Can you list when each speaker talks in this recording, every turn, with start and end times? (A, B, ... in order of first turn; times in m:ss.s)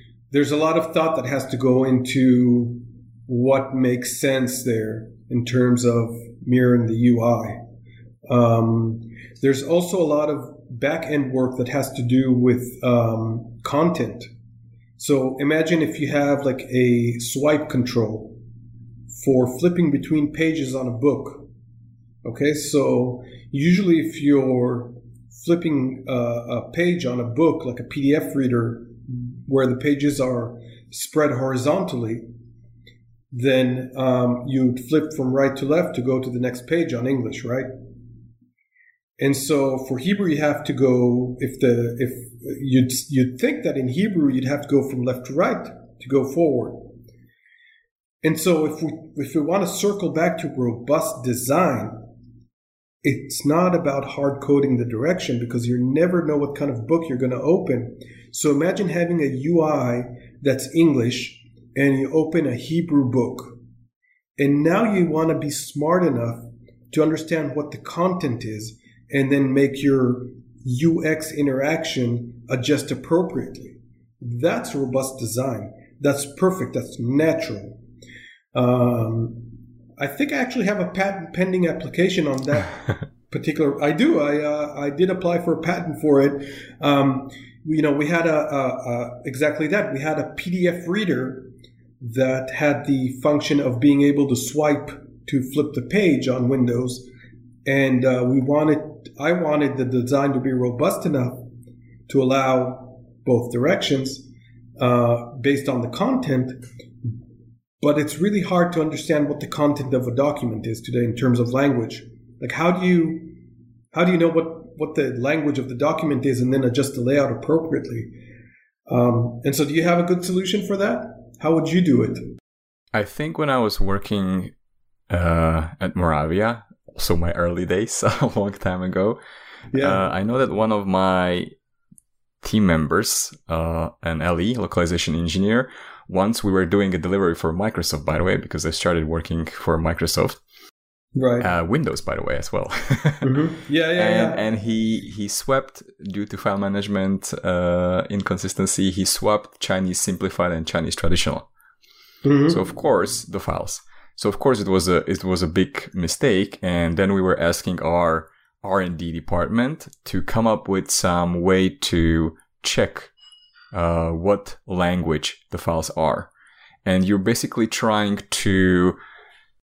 0:00.3-0:07.6 A
0:08.3-0:14.3 A
0:15.0-0:18.4 A
0:19.1-0:21.5 A
0:22.2-0:32.2 A
0:33.3-0:37.7 A
0:39.2-0:46.9 A
0:48.2-0:52.0 A
0:53.0-1:03.6 A
1:04.4-1:17.8 A
1:18.5-1:37.1 A
1:37.6-1:41.5 A
1:42.1-1:44.2 A
1:44.8-1:46.6 A
1:47.8-1:53.3 A
1:53.9-1:58.1 A
1:58.9-2:02.2 A
2:02.9-2:04.5 B
2:05.1-2:09.2 B
2:09.7-2:10.1 A
2:09.8-2:11.5 B
2:12.4-2:20.4 B
2:21.2-2:21.5 A
2:21.4-2:23.4 B
2:23.2-2:24.4 A
2:24.0-2:31.5 B
2:32.2-2:32.6 A
2:32.5-2:43.1 B
2:43.7-2:46.3 B
2:46.8-2:49.0 B